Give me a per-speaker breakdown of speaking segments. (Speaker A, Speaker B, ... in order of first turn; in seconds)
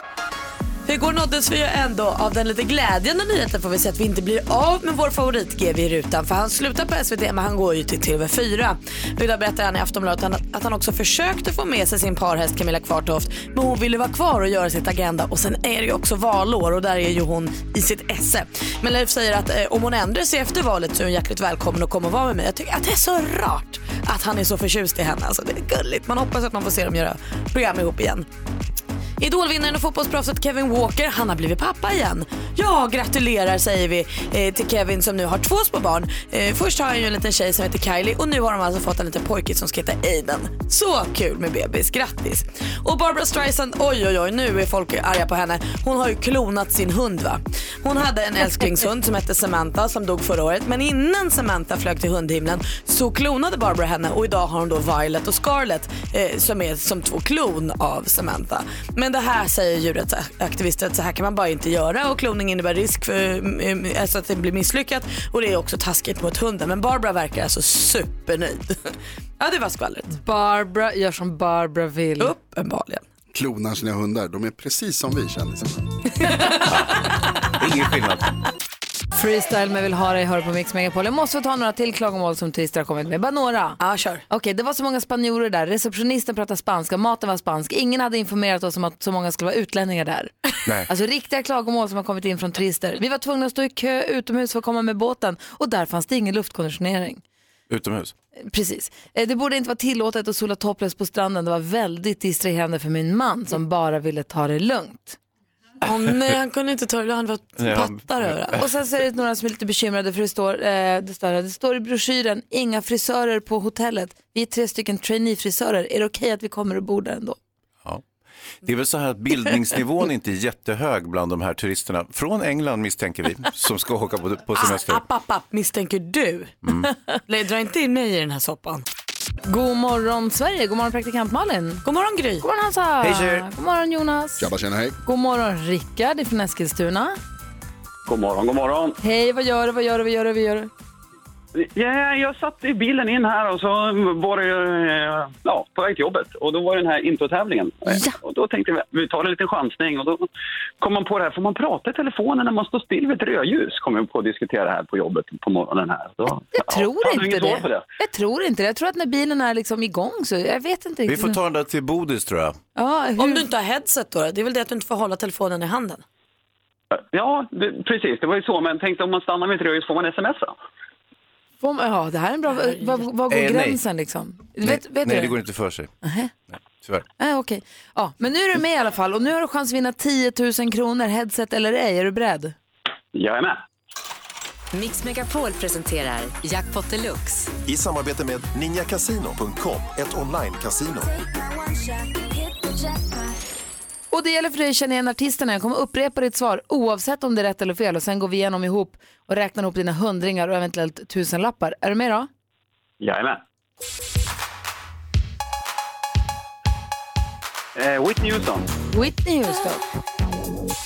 Speaker A: 0.9-28.3, 29.2-70.1, 72.2-73.0, 76.3-76.5, 83.8-84.2, 105.8-108.6, 124.5-126.6, 127.3-128.8, 131.8-132.4, 163.2-166.0, 172.5-173.1
Speaker B: 70.1-72.3, 79.2-83.8, 84.3-90.3, 90.9-97.2, 98.4-105.2, 108.6-117.4, 129.4-131.8, 132.4-134.5, 135.1-137.2, 139.0-140.7, 147.9-148.2, 156.5-161.4, 162.8-163.5, 171.6-175.3, 176.0-176.3, 177.2-182.6, 194.1-202.3, 208.9-209.8
Speaker C: 73.3-75.9, 134.4-135.0
Speaker D: 76.7-78.3, 97.7-98.1, 107.6-108.6, 118.6-125.0, 133.0-133.5, 161.1-162.6, 173.3-173.8, 174.6-175.9, 176.5-177.1
Speaker E: 138.1-139.0, 141.6-150.3, 150.8-157.8, 166.9-170.6, 183.1-183.6, 203.0-203.4, 207.8-208.7
Speaker F: 184.7-187.5
Speaker G: 187.7-191.2